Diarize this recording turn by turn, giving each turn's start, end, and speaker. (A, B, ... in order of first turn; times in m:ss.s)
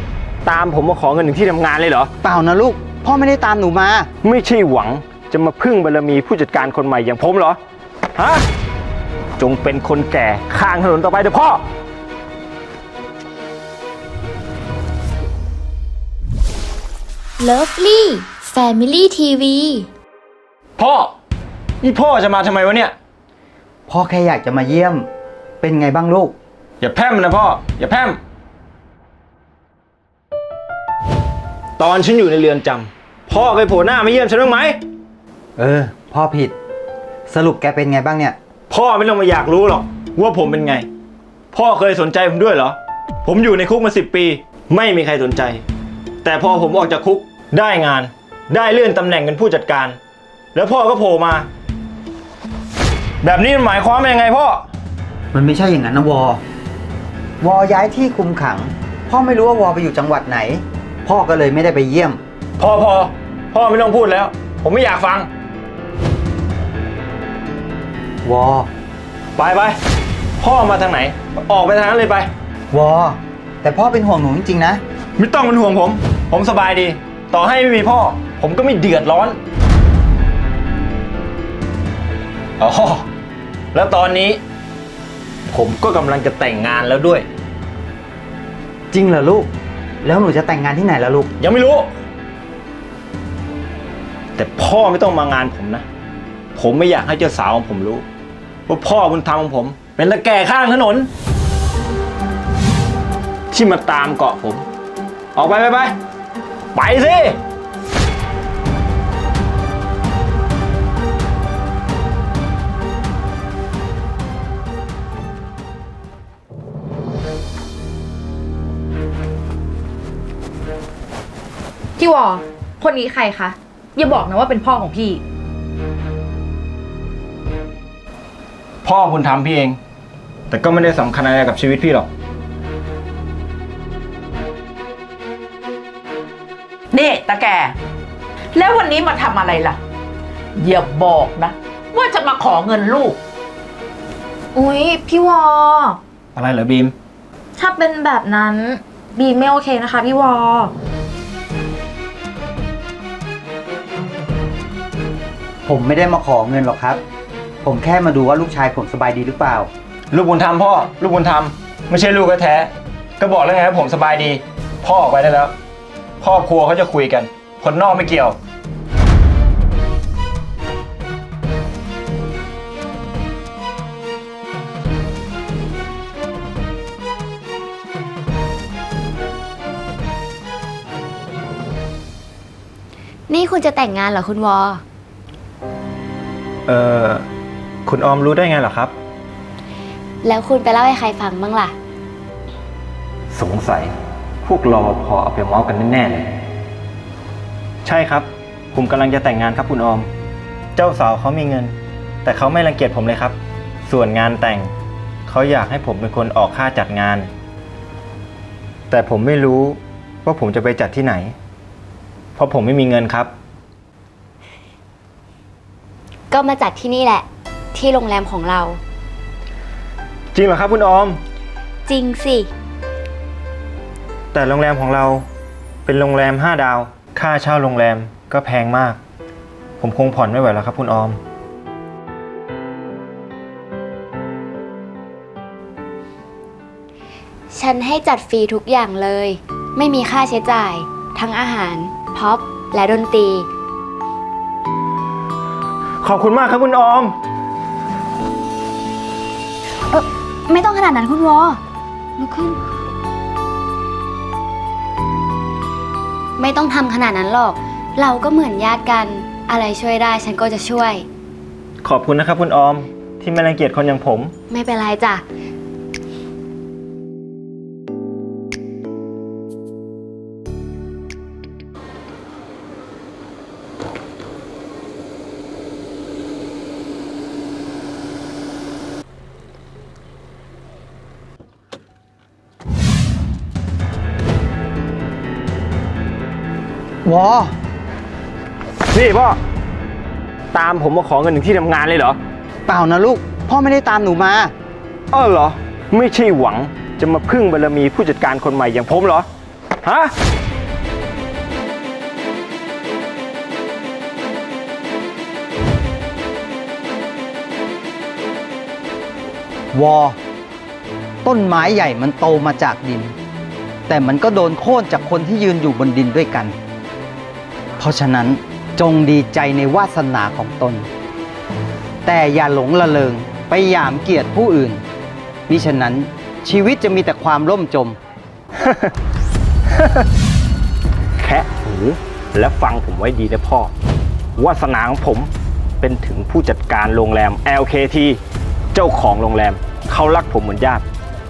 0:00.4-0:02.1 A
0:02.2-0:04.1 B
0:04.2-0:07.6 A
0:08.2-0:08.4 A
0:09.4-0:11.6 A
0:17.4-0:19.9 C
0:20.8-0:21.1 A
0:21.8-0:22.9 A
0:23.9-0:25.1 B
0:25.6-0:26.3 B
0:26.8-0:28.2 A
0:31.8-0:34.8 A
0:35.6-0:36.5 B
0:37.3-0:38.4 B
0:38.7-0:40.9 A
0:41.5-0:45.6 A
0:46.2-0:50.0 A
0:50.5-0:51.5 A
0:53.2-0:54.6 A
0:55.3-0:56.4 B
0:57.4-1:02.2 B
1:02.6-1:05.3 A
1:08.2-1:08.7 B
1:09.4-1:09.8 A
1:10.4-1:12.3 A
1:12.7-1:14.8 B
1:15.2-1:19.4 A
1:22.6-1:23.0 A
1:23.7-1:24.4 A
1:25.5-1:27.3 A
1:28.9-1:29.5 B
1:30.0-1:31.3 B
1:31.4-1:31.9 A
1:34.4-1:35.8 A
1:36.6-1:38.0 A
1:38.7-1:41.1 A
1:43.5-1:44.6 A
1:45.4-1:45.9 A
1:46.7-1:47.4 A
2:02.0-2:05.2 D
2:08.8-2:09.8 A
2:10.5-2:12.1 A
2:16.9-2:17.8 E
2:18.6-2:19.8 E
2:20.6-2:23.2 E
2:24.6-2:26.0 D
2:26.4-2:26.9 A
2:27.6-2:30.7 D
2:35.7-2:37.0 B
2:37.6-2:39.7 B
2:40.1-2:45.5 A
2:46.2-2:48.4 A
3:03.3-3:04.8 C
3:06.7-3:07.2 A
3:07.9-3:08.9 A
3:10.2-3:11.7 C
3:13.3-3:13.9 A
3:14.4-3:16.3 A
3:17.8-3:20.1 A
3:20.8-3:21.7 A
3:22.2-3:24.7 A
3:25.3-3:27.3 A
3:28.9-3:31.4 A
3:32.4-3:33.3 A
3:36.3-3:38.8 C
3:40.3-3:41.2 A
3:41.9-3:42.5 C
3:44.3-3:45.3 A
3:45.8-3:49.0 A
3:49.8-3:51.2 A
3:57.5-4:03.5 C
4:06.0-4:07.2 A
4:09.9-4:11.6 C
4:12.2-4:12.6 C
4:16.4-4:21.0 C
4:21.8-4:24.3 A
4:24.5-4:25.2 C
4:47.1-4:47.5 B
4:48.9-4:49.4 A
4:50.5-4:52.2 A
4:52.7-4:54.5 B
4:55.1-4:59.3 A
4:59.8-5:00.1 A
5:09.7-5:10.2 B
5:11.2-5:13.2 B
5:13.9-5:16.6 B
5:17.8-5:20.9 B
5:22.0-5:24.8 B
5:25.5-5:28.0 B
5:31.2-5:33.7 A
5:34.4-5:35.3 A
5:35.8-5:38.2 A
5:38.7-5:40.8 A